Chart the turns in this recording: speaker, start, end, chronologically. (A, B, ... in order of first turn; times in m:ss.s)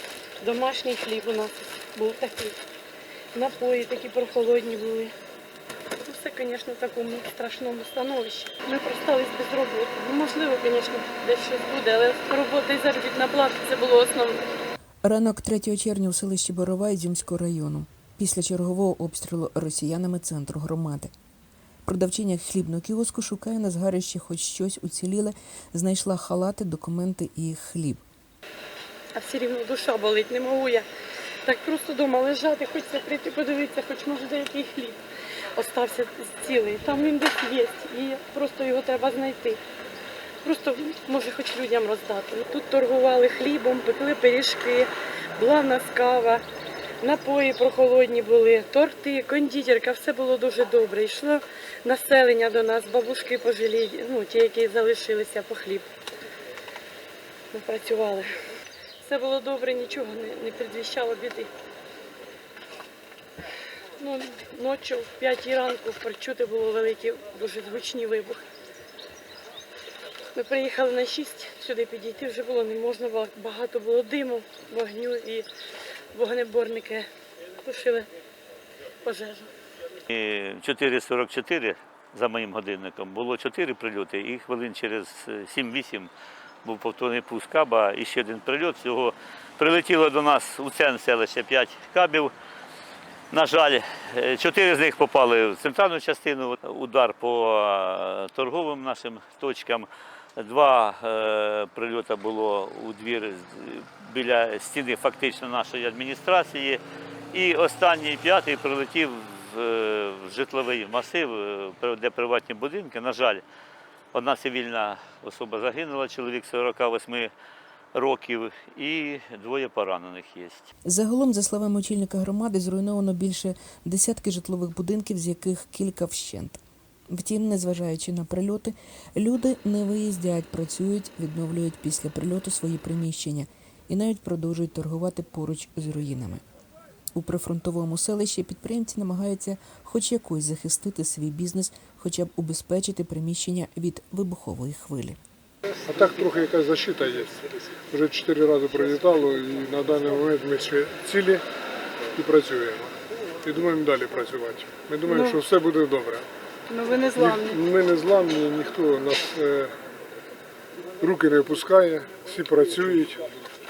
0:00.4-0:02.6 A
0:03.3-0:05.1 A
0:06.0-0:14.4 A
0:15.0-0:21.1 B
0:21.8-0:28.0 B
0:29.1-0:30.8 A
0:31.4-0:35.0 A
0:35.6-0:39.6 A
0:40.4-0:46.4 A
0:47.0-0:55.9 A
0:57.5-0:58.3 A
0:59.0-1:01.5 A
1:04.0-1:08.4 A
1:10.3-1:15.5 A
1:16.1-1:17.1 A
1:17.6-1:18.1 A
1:19.0-1:19.5 A
1:20.1-1:26.1 C
1:26.6-1:32.3 C
1:33.3-1:46.8 C
1:47.3-1:53.4 C
1:54.1-1:57.3 C
1:57.9-2:00.7 C
2:00.8-2:16.4 B
2:17.1-2:25.2 B
2:25.9-2:31.4 D
2:32.2-2:36.3 D
2:35.0-2:35.4 A
2:36.7-2:37.6 A
2:37.1-2:39.7 D
2:41.0-2:43.3 D